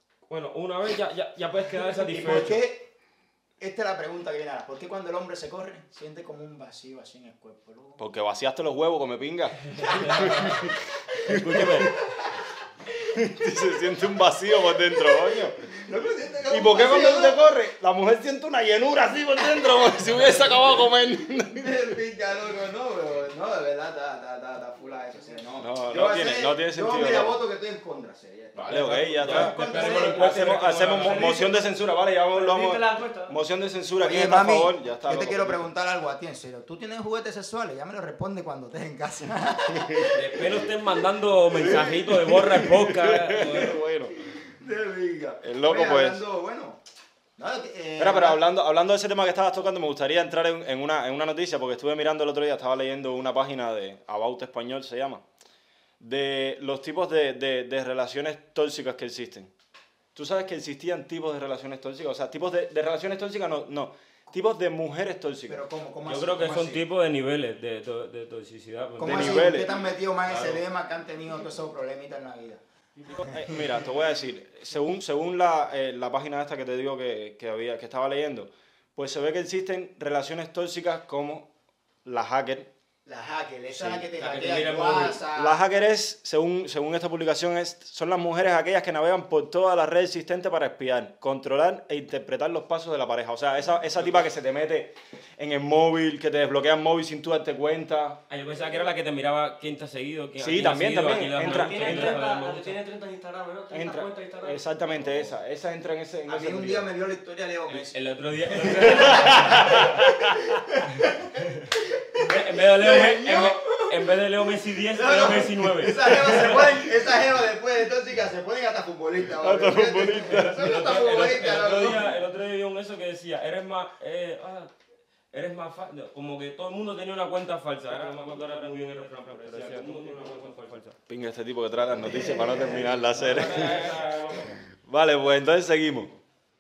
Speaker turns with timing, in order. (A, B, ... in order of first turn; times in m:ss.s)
0:00.3-0:02.6 A
0:02.1-0:02.9 B
0:03.6-0:08.0 B
0:08.0-0:11.9 C
0:09.8-0:10.6 A
0:09.8-0:10.6 B
0:11.2-0:11.9 A
0:11.3-0:11.6 B
0:13.1-0:15.7 C
0:14.8-0:17.4 B
0:16.5-0:21.8 C
0:21.5-0:30.5 B
0:25.6-0:27.4 C
0:28.6-0:35.7 C
0:29.2-0:31.4 A
0:29.6-0:30.2 D
0:31.0-0:31.6 D
0:32.3-0:33.4 D
0:34.0-0:40.4 B
0:39.7-0:40.2 C
0:40.1-0:43.8 A
0:41.6-0:44.2 C
0:41.6-0:42.0 B
0:44.3-0:46.8 B
0:45.4-0:46.2 C
0:47.4-0:48.4 B
0:48.0-0:55.2 C
0:56.0-0:59.5 C
1:00.2-1:05.6 C
1:05.5-1:06.8 B
1:06.1-1:09.6 A
1:09.0-1:12.6 B
1:09.0-1:09.7 C
1:10.3-1:10.6 A
1:13.1-1:13.6 B
1:13.1-1:21.5 C
1:22.0-1:22.7 C
1:23.1-1:25.6 B
1:23.7-1:24.1 C
1:24.2-1:25.2 A
1:25.4-1:38.2 C
1:38.3-1:42.8 A
1:40.4-1:42.2 C
1:41.4-1:45.2 D
1:43.7-1:46.9 C
1:46.3-1:48.0 B
1:47.7-1:49.9 A
1:48.5-1:54.1 B
1:48.9-1:50.6 C
1:52.2-1:56.8 A
1:54.9-2:02.1 B
1:59.4-2:00.9 C
2:00.4-2:04.7 A
2:05.3-2:10.9 A
2:07.9-2:14.0 C
2:12.0-2:12.9 B
2:12.8-2:14.6 A
2:14.8-2:16.1 C